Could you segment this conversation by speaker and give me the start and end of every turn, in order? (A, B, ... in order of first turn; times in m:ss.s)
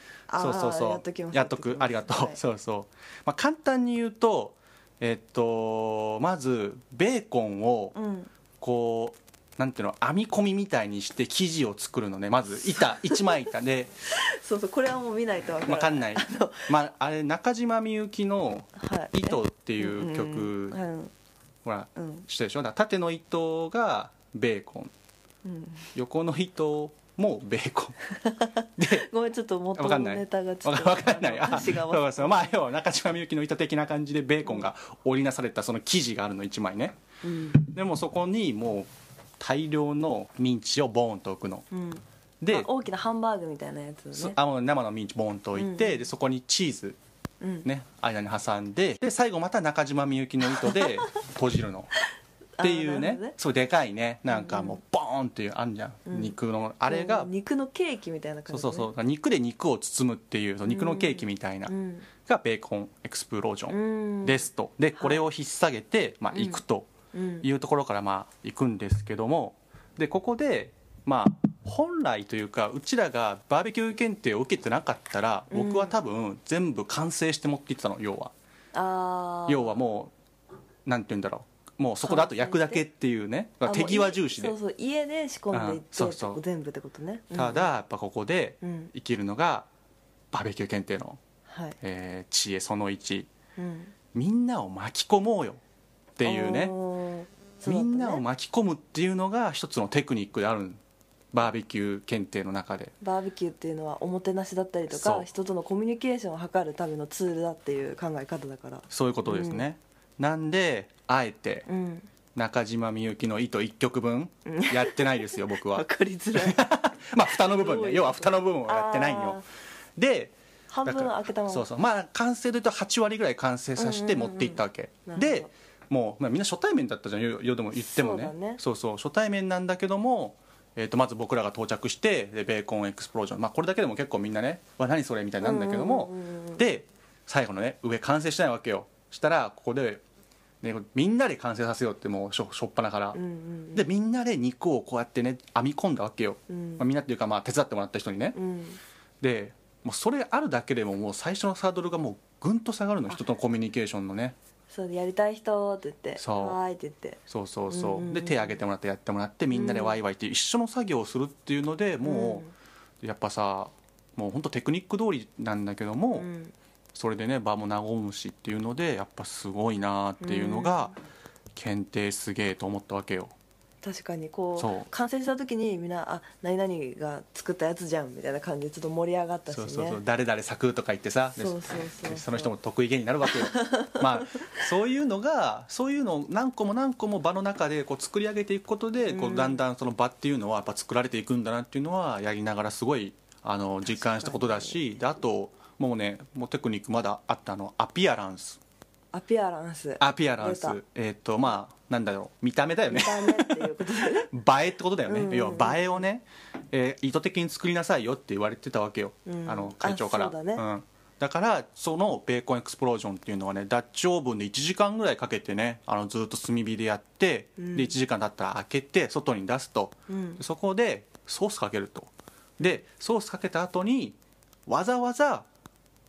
0:00.3-0:02.4 A
0:00.4-0:08.0 B
0:07.9-0:08.3 A
0:08.6-0:13.9 B
0:12.5-0:13.5 A
0:14.1-0:16.7 A
0:15.6-0:20.8 B
0:18.8-0:21.1 A
0:21.6-0:24.9 B
0:22.0-0:22.3 A
0:25.4-0:25.9 A
0:26.0-0:28.0 B
0:28.2-0:32.6 A
0:28.8-0:29.1 B
0:29.8-0:37.0 B
0:37.2-0:37.6 A
0:37.6-0:41.6 B
0:41.7-0:44.4 A
0:42.4-0:42.7 B
0:44.1-0:47.0 B
0:45.6-0:46.1 A
0:47.4-0:47.7 A
0:47.6-0:51.9 B
0:50.5-0:51.1 A
0:52.6-0:53.4 A
0:52.6-0:57.3 B
0:54.3-0:54.8 A
0:56.1-0:56.4 A
0:56.9-0:58.9 A
0:58.5-1:01.7 B
1:00.6-1:02.1 A
1:02.2-1:06.9 B
1:03.7-1:05.2 A
1:06.3-1:07.5 A
1:07.4-1:18.3 B
1:15.5-1:16.0 A
1:18.7-1:19.8 A
1:19.5-1:20.1 B
1:20.9-1:24.6 B
1:22.0-1:22.8 A
1:23.6-1:27.7 A
1:25.5-1:26.4 B
1:27.3-1:29.7 B
1:28.6-1:28.9 A
1:30.3-1:31.2 B
1:31.5-1:31.8 A
1:31.8-1:33.3 B
1:33.6-1:33.9 A
1:34.1-1:35.6 B
1:36.2-1:36.8 B
1:36.2-1:38.2 A
1:37.6-1:40.8 B
1:41.3-1:42.9 B
1:43.0-1:49.6 A
1:44.9-1:45.3 B
1:48.9-1:51.7 B
1:51.7-1:52.1 A
1:52.4-1:59.4 B
1:54.5-1:56.6 A
1:57.2-1:59.5 A
2:00.0-2:00.3 B
2:00.7-2:01.7 A
2:00.8-2:20.0 B
2:03.8-2:05.5 A
2:07.8-2:08.6 A
2:15.4-2:16.7 A
2:20.6-2:23.2 B
2:23.1-2:23.9 A
2:23.7-2:28.4 B
2:26.5-2:26.8 A
2:28.4-2:28.8 A
2:29.2-2:34.4 B
2:34.7-2:38.6 A
2:36.2-2:36.6 B
2:37.3-2:42.5 B
2:39.5-2:40.0 A
2:42.0-2:42.5 A
2:43.0-2:46.3 B
2:46.1-2:46.5 A
2:46.9-2:51.0 B
2:50.2-2:51.0 A
2:51.5-2:53.3 B
2:53.8-3:00.0 A
2:54.6-2:54.9 B
2:59.5-3:18.6 B
3:01.4-3:02.5 A
3:03.3-3:04.6 A
3:09.1-3:09.6 A
3:13.8-3:15.0 A
3:19.1-3:20.8 A
3:20.0-3:45.5 B
3:22.9-3:24.3 A
3:25.1-3:26.1 A
3:29.2-3:30.6 A
3:37.6-3:38.0 A
3:40.1-3:40.4 A